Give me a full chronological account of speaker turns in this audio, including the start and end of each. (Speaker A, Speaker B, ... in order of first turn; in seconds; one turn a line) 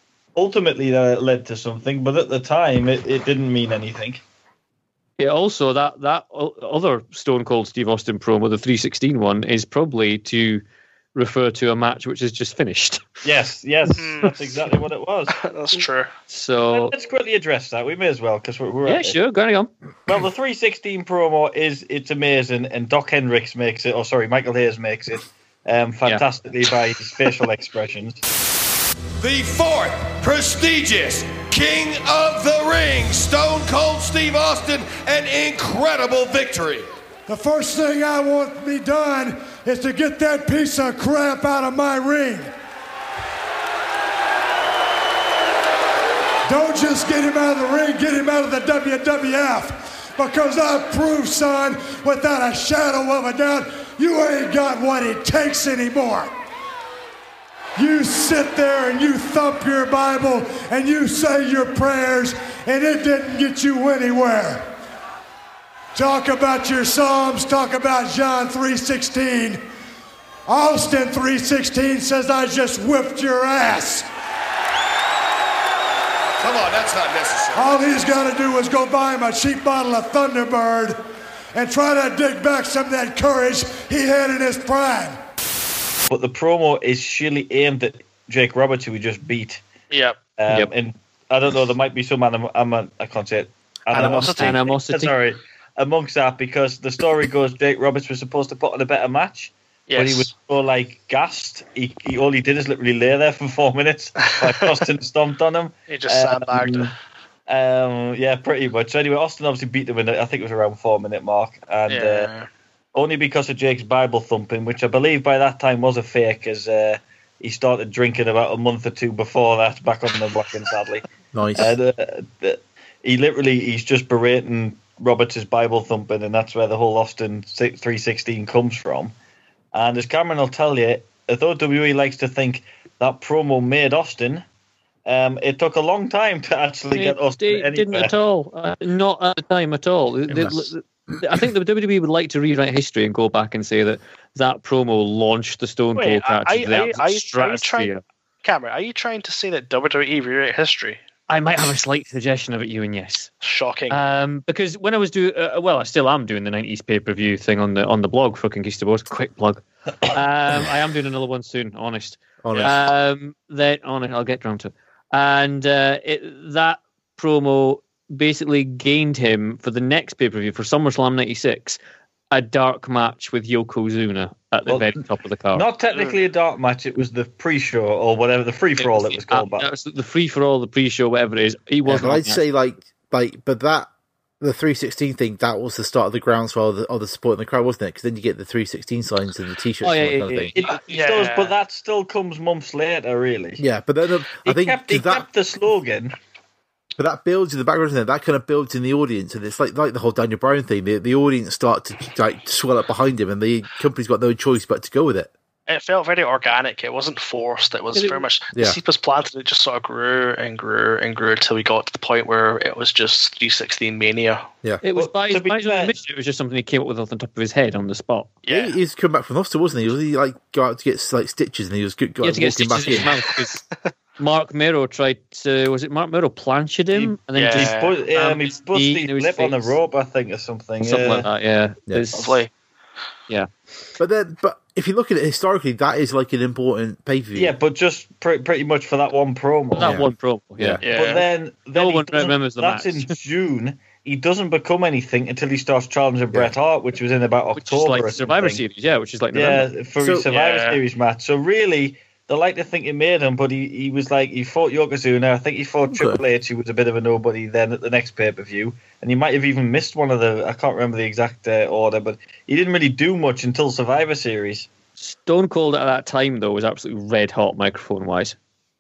Speaker A: 0.3-4.2
Speaker B: 5.2-10.6
Speaker B: 11.1-13.0
Speaker A: 13.2-15.3
Speaker C: 13.9-14.3
Speaker C: 15.3-16.1
Speaker B: 16.3-16.9
Speaker A: 16.7-19.2
Speaker B: 18.9-19.7
Speaker A: 20.1-28.2
Speaker D: 29.2-36.8
Speaker E: 37.3-42.5
Speaker E: 46.5-56.3
Speaker E: 57.8-64.7
Speaker E: 65.9-69.6
Speaker E: 70.5-74.1
Speaker D: 76.4-77.7
Speaker E: 77.5-81.0
Speaker E: 81.5-85.2
Speaker A: 86.1-89.6
Speaker C: 89.9-90.2
Speaker A: 90.4-106.9
Speaker C: 93.9-94.7
Speaker B: 94.0-95.1
Speaker C: 99.9-100.3
Speaker C: 104.2-104.7
Speaker C: 105.9-106.9
Speaker A: 107.5-112.3
Speaker C: 111.9-112.5
Speaker A: 112.9-121.0
Speaker F: 121.3-121.7
Speaker A: 121.6-129.1
Speaker A: 129.7-134.4
Speaker A: 135.1-138.1
Speaker B: 136.9-148.0
Speaker C: 145.9-147.9
Speaker C: 148.4-151.0
Speaker B: 151.3-153.3
Speaker C: 153.4-154.0
Speaker B: 153.9-171.8
Speaker F: 162.4-162.7
Speaker B: 172.3-175.6
Speaker A: 174.7-174.9
Speaker A: 175.5-179.7
Speaker B: 178.8-182.4
Speaker F: 181.8-183.9
Speaker F: 184.4-190.5
Speaker B: 189.8-190.7
Speaker A: 190.5-193.6
Speaker C: 190.9-191.6
Speaker F: 193.6-195.2
Speaker A: 194.4-196.1
Speaker F: 197.0-205.3
Speaker C: 205.7-214.4
Speaker B: 207.9-208.2
Speaker F: 208.5-208.8
Speaker B: 214.8-218.3
Speaker A: 214.9-215.9
Speaker C: 218.4-218.7
Speaker F: 218.5-223.1
Speaker B: 222.2-223.6
Speaker B: 224.2-229.7
Speaker A: 226.9-231.2
Speaker C: 227.3-227.9
Speaker B: 230.8-232.4
Speaker C: 232.1-232.5
Speaker F: 234.0-237.5
Speaker A: 237.3-239.9
Speaker B: 239.8-240.9
Speaker F: 239.8-240.8
Speaker C: 240.8-241.2
Speaker A: 240.9-248.6
Speaker B: 241.7-243.1
Speaker B: 247.6-249.6
Speaker A: 249.3-264.7
Speaker F: 250.0-250.2
Speaker C: 250.3-250.8
Speaker F: 255.9-256.2
Speaker B: 265.0-268.4